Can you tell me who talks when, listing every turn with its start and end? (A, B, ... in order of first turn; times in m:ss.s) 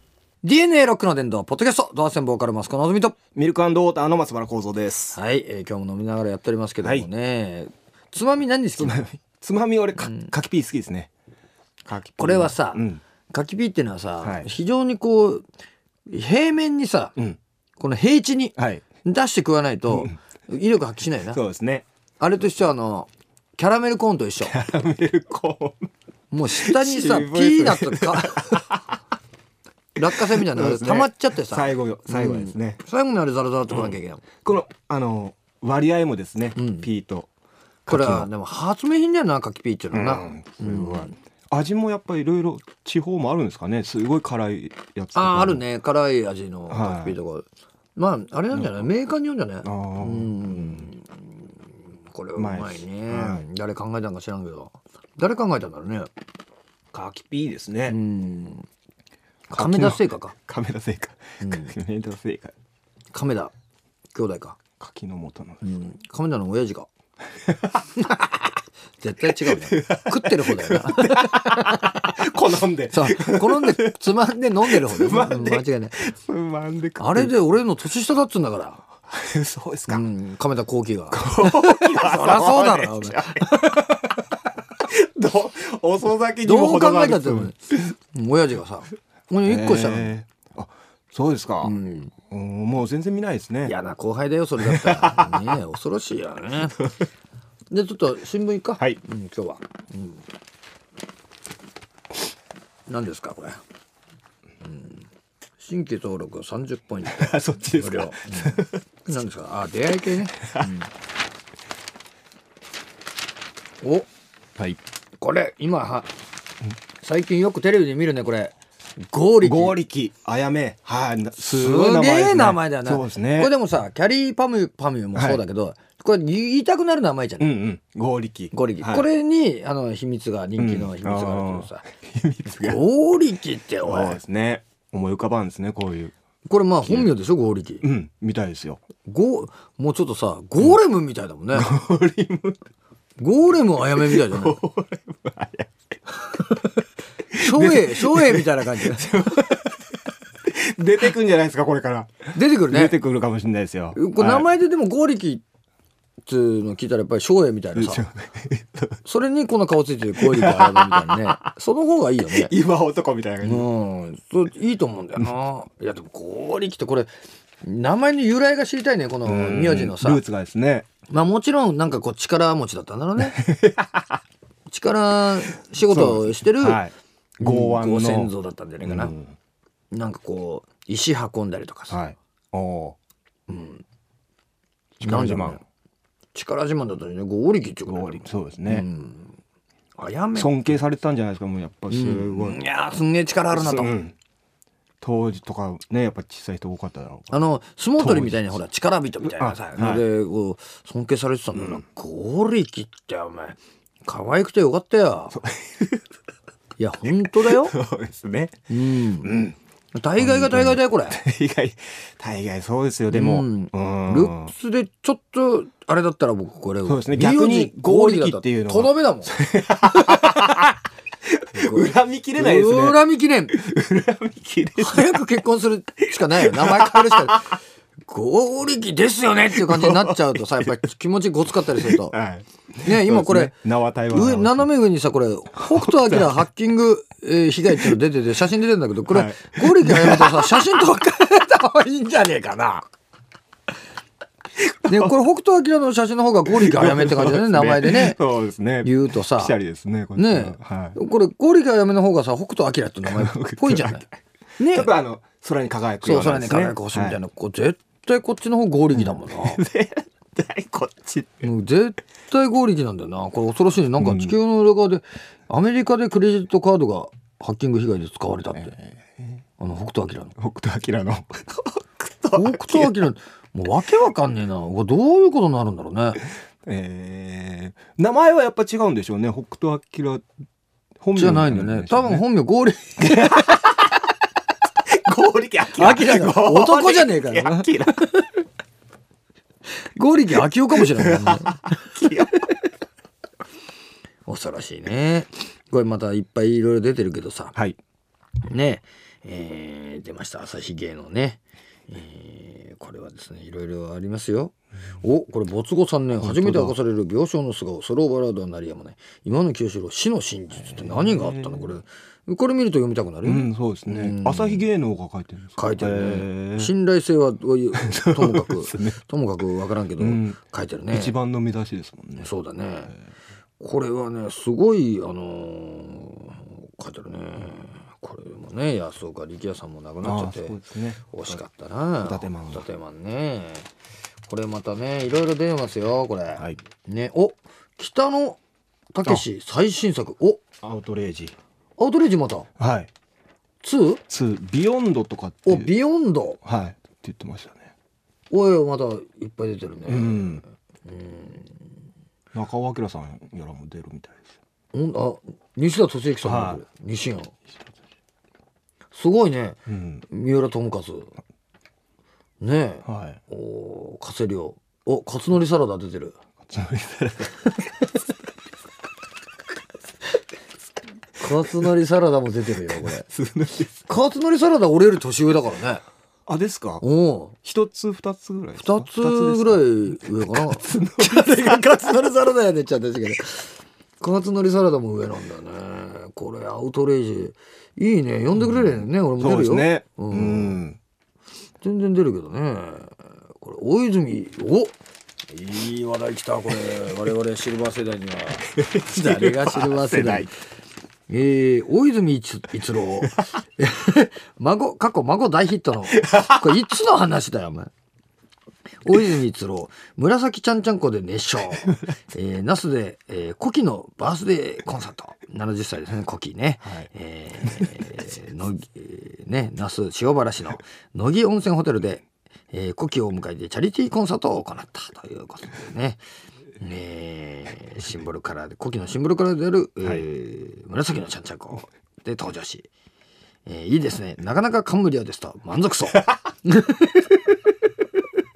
0:00.4-0:03.2 A
0:03.3-0:05.2 B
0:05.1-0:09.0 A
0:06.8-0:07.1 B
0:08.8-0:11.1 B
0:11.8-0:13.0 B
0:12.2-0:15.4 A
0:14.2-0:14.5 B
0:16.1-0:17.2 A
0:17.8-0:21.4 A
0:18.6-0:18.8 B
0:21.3-0:21.8 B
0:22.2-0:24.6 A
0:24.4-0:25.9 B
0:26.3-0:28.6 A
0:26.5-0:29.0 B
0:30.0-0:34.2 A
0:30.1-0:32.8 B
0:33.7-0:37.3 B
0:36.6-0:36.9 A
0:37.8-0:38.3 B
0:37.9-0:41.1 A
0:39.9-0:45.6 B
0:45.1-0:56.1 A
0:46.7-0:47.2 B
0:48.5-0:48.9 B
0:49.6-0:50.9 B
0:52.4-0:53.4 B
0:56.9-0:58.0 B
0:57.8-0:58.6 A
0:59.5-1:00.4 A
0:59.5-1:02.5 B
1:01.4-1:01.7 A
1:03.1-1:03.5 A
1:04.1-1:04.6 A
1:04.8-1:05.7 B
1:05.6-1:06.9 A
1:08.0-1:08.4 A
1:09.0-1:12.3 A
1:09.4-1:14.0 B
1:12.9-1:16.0 A
1:14.6-1:17.3 B
1:17.0-1:18.8 A
1:19.1-1:20.0 B
1:19.9-1:24.0 A
1:21.1-1:23.8 B
1:24.9-1:27.9 B
1:26.4-1:30.1 A
1:29.4-1:31.7 B
1:31.6-1:32.1 A
1:32.3-1:33.7 B
1:33.6-1:36.8 A
1:34.6-1:35.5 B
1:37.7-1:40.2 A
1:42.9-1:43.6 A
1:44.6-1:45.0 A
1:45.6-1:50.8 A
1:47.0-1:48.8 B
1:50.4-1:50.8 B
1:53.8-1:54.1 A
1:55.2-1:56.1 A
1:57.0-1:58.5 A
1:59.1-1:59.8 A
1:59.4-2:03.5 B
2:01.4-2:07.5 A
2:05.1-2:05.4 B
2:07.4-2:09.1 B
2:08.5-2:11.8 A
2:10.6-2:12.8 B
2:12.5-2:14.2 A
2:13.8-2:16.1 B
2:16.4-2:17.9 A
2:16.8-2:17.1 B
2:17.8-2:18.8 B
2:19.0-2:21.8 A
2:21.5-2:22.6 B
2:23.2-2:24.6 A
2:23.9-2:25.7 B
2:27.3-2:34.5 B
2:27.4-2:29.2 A
2:32.3-2:33.0 A
2:33.9-2:35.4 A
2:36.2-2:38.0 A
2:37.7-2:39.0 B
2:39.0-2:42.5 A
2:40.2-2:41.4 B
2:42.3-2:43.7 B
2:43.4-2:47.1 A
2:47.6-2:50.2 A
2:49.2-2:50.8 B
2:51.1-2:53.4 A
2:53.2-2:54.2 B
2:54.7-2:56.8 A
2:55.8-2:59.4 B
2:57.4-2:59.1 A
2:59.9-3:02.0 A
3:01.9-3:03.0 B
3:03.5-3:03.8 A
3:05.0-3:05.6 B
3:05.0-3:05.6 A
3:06.3-3:09.4 A
3:07.8-3:08.8 B
3:10.0-3:10.8 A
3:10.3-3:12.6 B
3:11.9-3:14.0 A
3:13.5-3:14.1 B
3:15.0-3:17.3 B
3:17.3-3:25.4 A
3:18.0-3:18.5 B
3:19.2-3:20.0 B
3:21.5-3:21.8 B
3:25.3-3:26.0 B
3:26.8-3:27.8 A
3:27.1-3:29.6 B
3:28.7-3:29.4 A
3:29.9-3:31.2 A
3:30.2-3:34.5 B
3:33.1-3:40.7 A
3:36.8-3:40.7 B
3:41.3-3:43.0 B
3:41.6-3:43.6 A
3:43.5-3:45.2 B
3:44.8-3:52.2 A
3:46.4-3:47.4 B
3:49.6-3:50.7 B
3:51.7-3:54.7 B
3:52.8-3:53.6 A
3:54.1-4:02.9 A
3:55.6-3:56.3 B
3:59.1-4:00.7 B
4:04.6-4:05.1 B
4:04.8-4:08.2 A
4:06.4-4:11.0 B
4:08.8-4:09.6 A
4:10.2-4:14.0 A
4:13.0-4:17.2 B
4:14.6-4:14.9 A
4:16.0-4:19.6 A
4:19.0-4:21.4 B
4:21.4-4:28.8 A
4:24.0-4:24.3 B
4:28.7-4:29.4 B
4:29.6-4:30.3 A
4:30.4-4:33.1 B
4:32.3-4:36.2 A
4:36.6-4:40.2 B
4:41.0-4:42.2 B
4:41.1-4:43.6 A
4:43.0-4:43.6 B
4:44.8-4:48.1 B
4:45.7-4:48.3 A
4:49.9-4:51.6 A
4:50.7-4:52.4 B
4:54.2-4:57.6 A
4:58.5-5:14.7 A
5:06.2-5:06.8 B
5:10.6-5:11.8 B
5:13.2-5:16.7 B
5:15.6-5:21.1 A
5:17.8-5:19.0 B
5:20.0-5:20.4 B
5:20.9-5:22.3 B
5:22.2-5:23.0 A
5:23.6-5:30.6 A
5:30.0-5:31.4 B
5:31.1-5:33.7 A
5:32.0-5:32.6 B
5:34.2-5:38.4 A
5:38.9-5:40.4 A
5:40.6-5:41.4 B
5:41.8-5:42.5 A
5:42.6-5:42.9 B
5:43.6-5:44.0 A
5:44.1-5:45.7 B
5:45.4-5:46.4 A
5:46.4-5:47.7 B
5:48.3-5:51.6 A
5:49.9-5:50.4 B
5:52.3-5:54.2 B
5:54.7-5:57.3 A
5:56.2-5:56.6 B
5:58.9-6:01.1 A
5:59.7-6:00.0 B
6:02.4-6:06.2 A
6:02.8-6:03.2 B
6:06.5-6:07.6 B
6:11.2-6:13.1 A
6:12.8-6:13.8 B
6:13.9-6:15.8 A
6:16.3-6:16.8 B
6:16.8-6:17.4 A
6:17.4-6:21.7 B
6:18.6-6:30.6 A
6:28.4-6:30.8 B
6:31.6-6:34.7 A
6:35.3-6:40.3 A
6:38.6-6:40.3 B
6:41.1-6:47.7 A
6:46.0-6:46.4 B
6:48.8-7:06.0 A
7:06.6-7:12.7 A
7:13.4-7:17.3 A